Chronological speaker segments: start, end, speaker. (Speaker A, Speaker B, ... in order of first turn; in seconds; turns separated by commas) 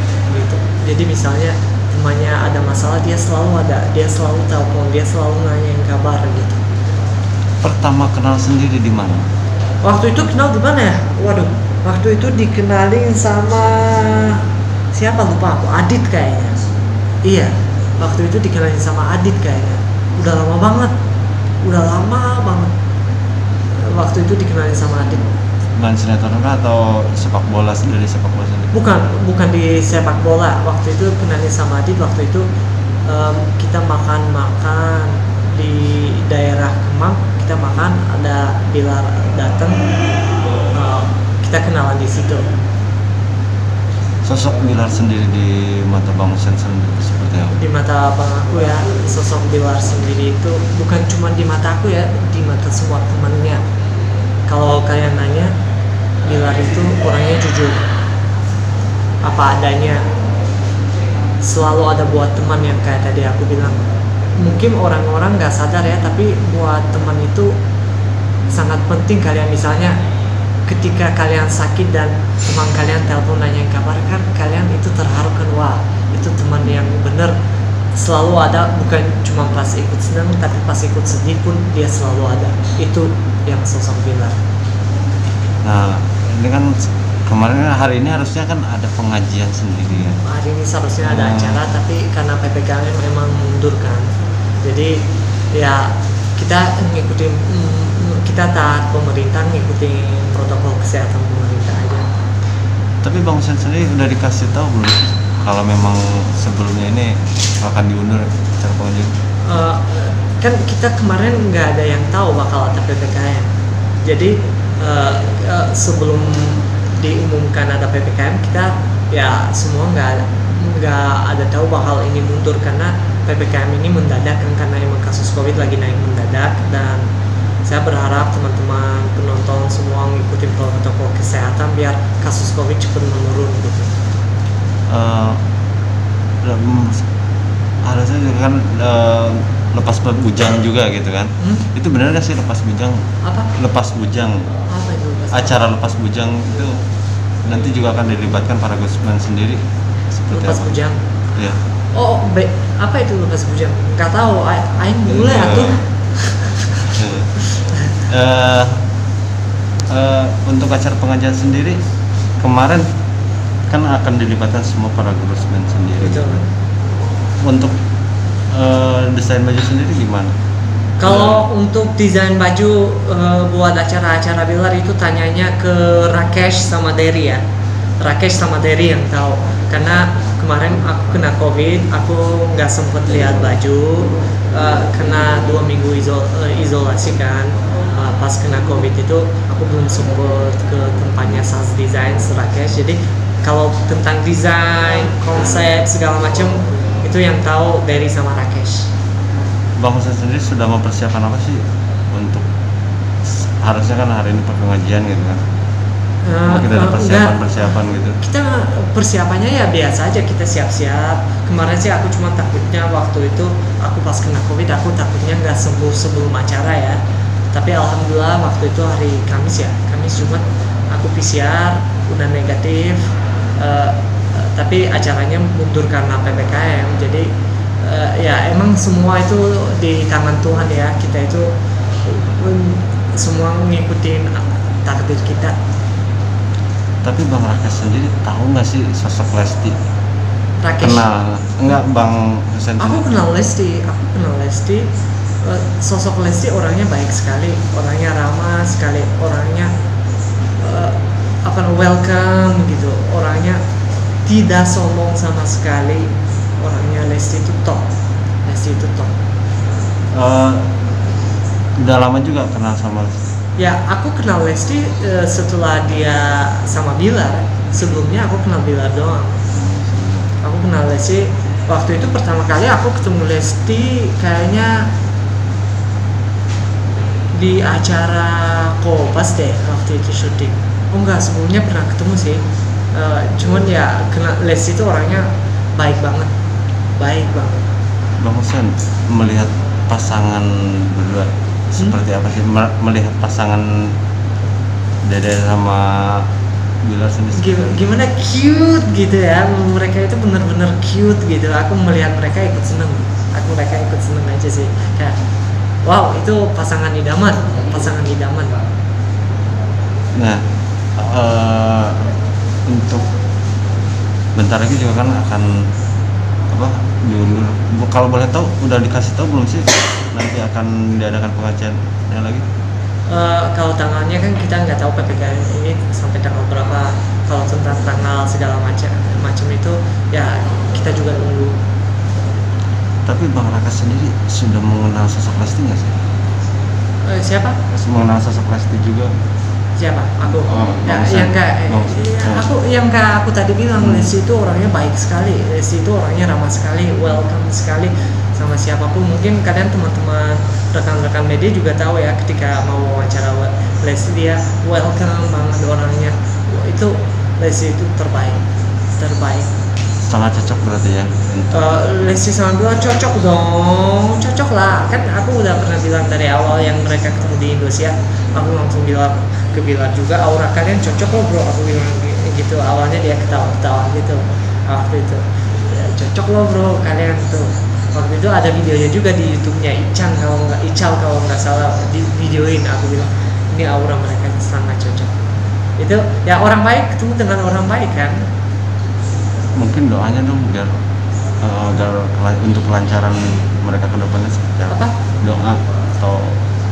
Speaker A: 0.3-6.6, Speaker B: 7.6-9.2, Speaker A: 9.8-14.4, Speaker A: 14.9-16.6, Speaker A: 17.2-20.9, Speaker A: 21.6-22.7, Speaker A: 23.8-25.3, Speaker B: 25.8-28.7, Speaker A: 28.7-32.5, Speaker A: 33.1-39.9, Speaker A: 40.7-42.4, Speaker B: 44.2-47.5, Speaker A: 47.5-53.6, Speaker A: 54.5-55.5, Speaker A: 56.2-57.8, Speaker A: 59.2-60.0, Speaker A: 61.4-63.8, Speaker A: 64.4-67.5, Speaker A: 68.5-70.0, Speaker A: 70.7-77.3, Speaker A: 77.9-84.4, Speaker B: 85.6-90.2, Speaker A: 90.1-102.1, Speaker B: 91.0-91.6, Speaker B: 103.0-109.1, Speaker A: 109.4-113.5, Speaker A: 114.0-127.0, Speaker A: 127.6-133.9, Speaker B: 134.9-135.4, Speaker B: 136.4-137.0, Speaker B: 137.8-143.0, Speaker A: 141.4-141.7, Speaker A: 143.2-143.5, Speaker B: 143.5-144.5, Speaker A: 144.7-145.6, Speaker B: 145.3-146.7, Speaker B: 147.4-149.6, Speaker B: 150.1-150.7, Speaker A: 150.3-151.0, Speaker A: 151.9-156.9, Speaker B: 155.1-155.8, Speaker B: 156.9-157.3, Speaker B: 158.1-158.8, Speaker B: 159.9-161.8, Speaker B: 162.4-162.8, Speaker B: 163.7-166.4, Speaker A: 166.0-166.4, Speaker B: 167.4-167.7, Speaker B: 168.5-170.3, Speaker A: 171.0-177.4, Speaker B: 171.1-171.4, Speaker A: 178.0-198.9, Speaker B: 199.8-202.4, Speaker B: 203.4-205.4, Speaker A: 206.2-207.7, Speaker B: 206.4-208.2, Speaker A: 208.2-217.0, Speaker A: 217.5-227.3, Speaker A: 227.8-231.5, Speaker A: 232.0-235.5, Speaker B: 237.0-239.7, Speaker A: 240.6-241.0, Speaker B: 240.8-243.0, Speaker A: 242.8-244.8, Speaker A: 245.4-249.7, Speaker A: 250.6-253.6, Speaker A: 254.2-257.9, Speaker A: 258.4-259.1, Speaker B: 260.1-260.8, Speaker B: 261.8-263.2, Speaker A: 263.6-269.4, Speaker B: 269.5-270.3, Speaker A: 270.4-274.9, Speaker A: 277.3-286.3, Speaker A: 287.0-287.6, Speaker B: 288.2-293.9, Speaker B: 295.0-296.3, Speaker B: 296.8-297.8, Speaker A: 297.3-305.1, Speaker A: 305.8-308.6, Speaker B: 310.1-310.4, Speaker B: 311.0-312.1, Speaker B: 312.7-313.1, Speaker B: 314.3-315.7, Speaker B: 316.5-322.4, Speaker A: 323.1-331.6, Speaker B: 333.1-335.9, Speaker A: 337.0-337.6, Speaker B: 337.7-339.1, Speaker A: 339.8-358.4, Speaker B: 340.2-342.5, Speaker B: 343.8-344.1, Speaker A: 359.0-359.5, Speaker B: 360.0-361.7, Speaker A: 361.5-385.1, Speaker A: 385.8-388.2, Speaker B: 389.6-390.7, Speaker B: 391.4-396.4, Speaker A: 394.7-394.9